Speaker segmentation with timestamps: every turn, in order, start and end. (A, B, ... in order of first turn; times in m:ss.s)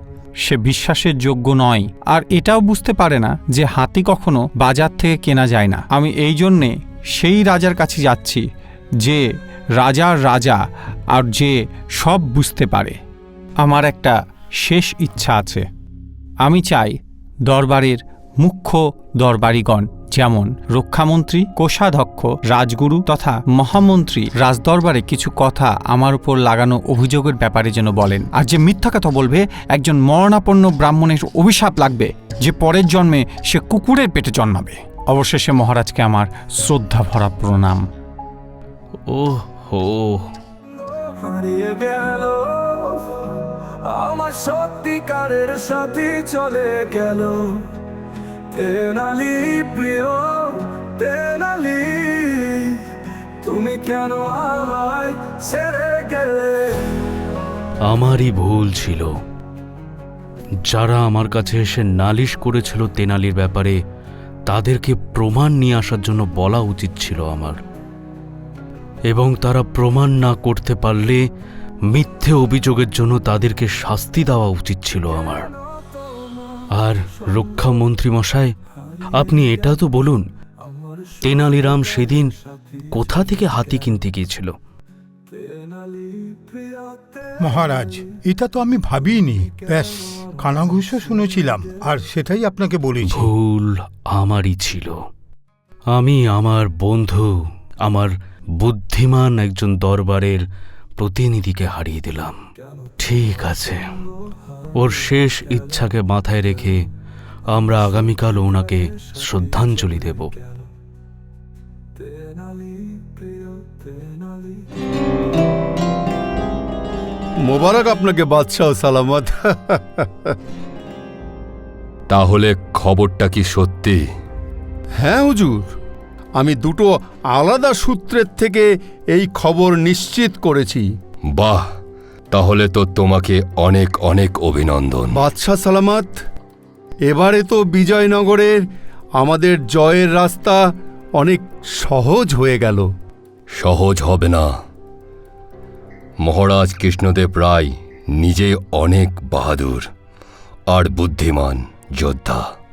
0:00.4-0:08.5 A
0:09.8-0:10.6 A
0:11.1-0:13.0 A
0:13.6-0:15.7 A
0:16.4-0:37.8 A
0:39.1-0:40.3 B
0:40.7-0:47.7 C
0:48.5-0:52.9 C
0:53.4-0:57.0 C
0:57.9-0:59.1 B
1:00.7-1:03.8 B
1:04.5-1:07.6 B
1:09.1-1:11.2 B
1:11.9-1:15.5 B
1:15.9-1:16.6 C
1:16.7-1:18.6 B
1:19.1-1:20.3 B
1:20.6-1:21.7 C
1:21.2-1:22.3 B
1:22.4-1:22.8 C
1:22.9-1:24.6 B
1:25.3-1:27.4 C
1:27.4-1:33.3 D
1:33.1-1:35.0 B
1:35.9-1:40.4 B
1:41.0-1:42.4 B
1:43.0-1:43.8 B
1:44.7-1:46.9 B
1:47.5-1:50.4 B
1:52.0-1:54.6 C
1:57.4-2:00.4 E
2:02.1-2:04.0 F
2:05.0-2:05.6 E
2:06.4-2:10.8 E
2:11.3-2:11.7 F
2:12.3-2:15.2 F
2:15.1-2:16.2 E
2:17.1-2:18.6 E
2:19.2-2:20.6 E
2:21.2-2:22.9 E
2:23.5-2:24.5 F
2:26.2-2:29.9 F
2:30.7-2:32.5 F